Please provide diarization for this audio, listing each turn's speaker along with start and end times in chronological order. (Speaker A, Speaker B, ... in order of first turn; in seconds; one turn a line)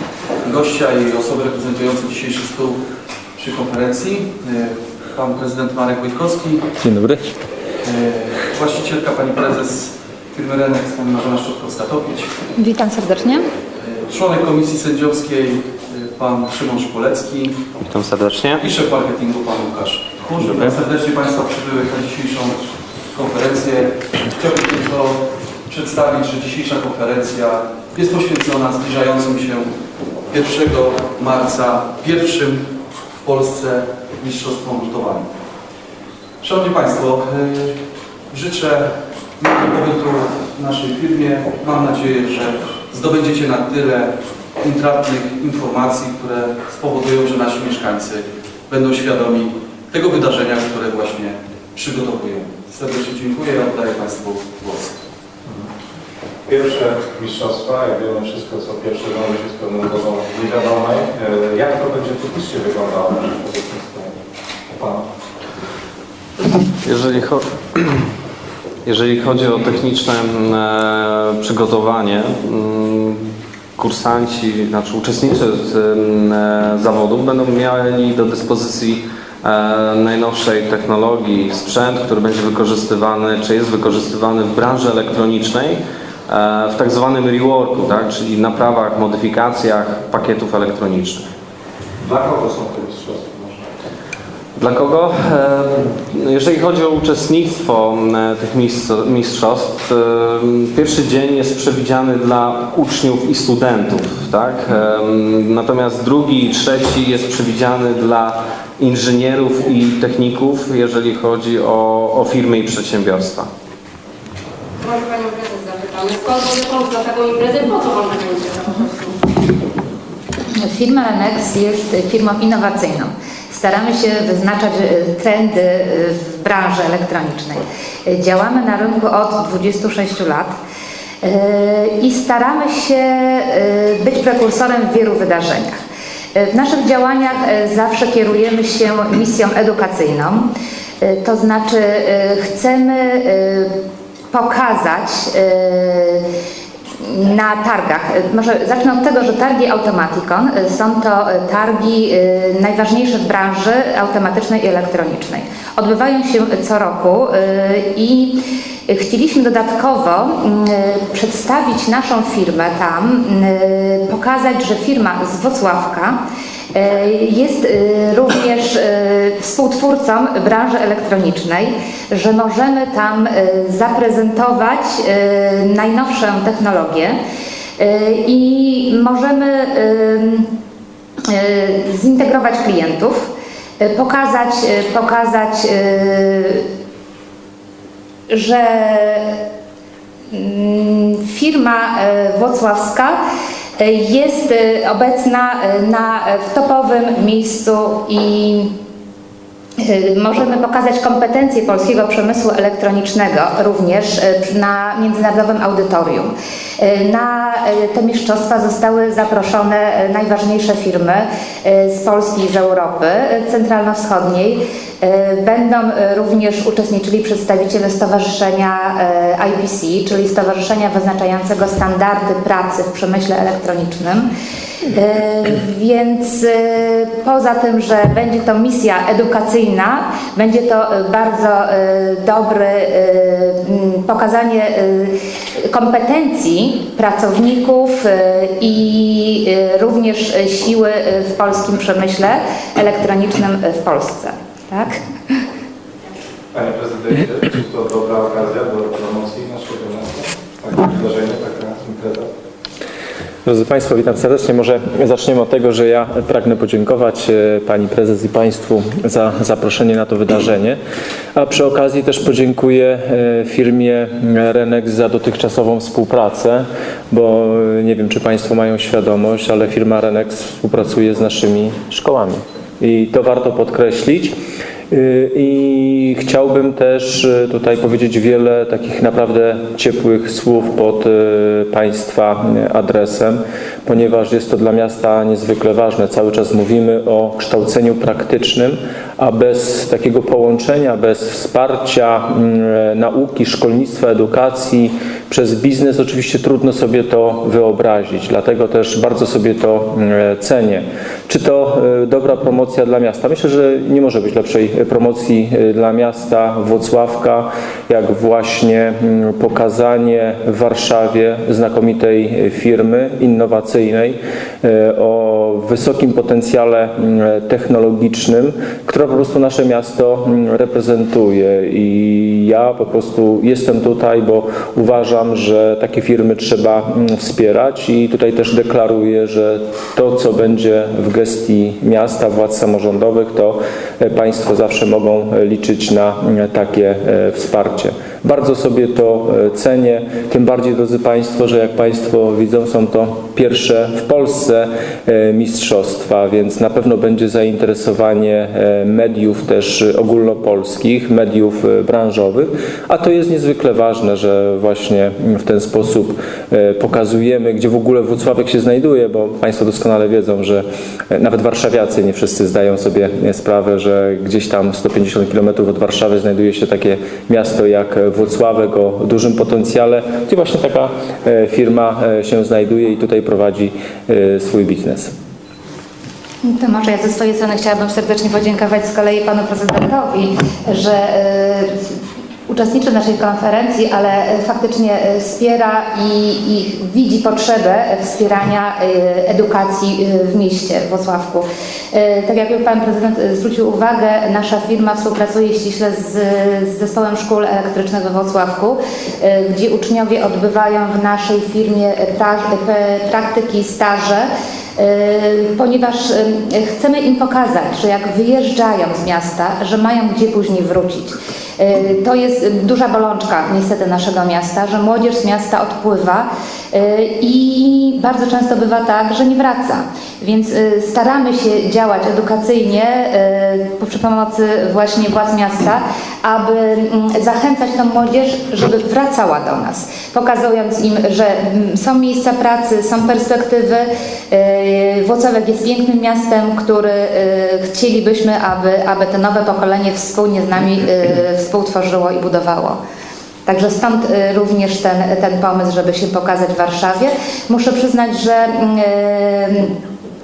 Speaker A: 0.4-2.8
Speaker A: 3.4-6.6
Speaker B: 6.8-7.2
Speaker A: 7.8-12.3
Speaker C: 12.6-13.5
Speaker A: 13.8-17.6
Speaker D: 17.9-18.6
Speaker A: 18.6-22.6
Speaker D: 20.4-20.8
Speaker A: 23.1-29.7
Speaker A: 30.3-32.6
Speaker A: 33.2-35.3
Speaker A: 36.4-37.7
Speaker A: 38.3-54.9
Speaker E: 56.5-64.1
Speaker E: 64.8-65.0
Speaker D: 66.8-67.9
Speaker D: 68.8-73.2
Speaker D: 73.8-91.2
Speaker E: 92.0-93.6
Speaker D: 94.6-113.5
Speaker F: 114.8-119.2
Speaker C: 120.5-130.5
Speaker C: 131.2-135.8
Speaker C: 136.3-140.5
Speaker C: 141.0-143.8
Speaker C: 144.3-146.3
Speaker C: 147.0-166.2
Speaker C: 166.7-177.2
Speaker C: 177.8-180.5
Speaker C: 181.3-186.7
Speaker C: 188.3-189.4
Speaker C: 190.3-193.2
Speaker C: 193.8-198.7
Speaker C: 199.8-224.3
Speaker C: 224.9-245.3
Speaker E: 246.5-252.3
Speaker B: 253.5-260.8
Speaker B: 261.4-274.3
Speaker B: 274.9-375.1
Speaker C: 376.4-381.9
Speaker C: 382.5-442.8
Speaker C: 443.5-449.7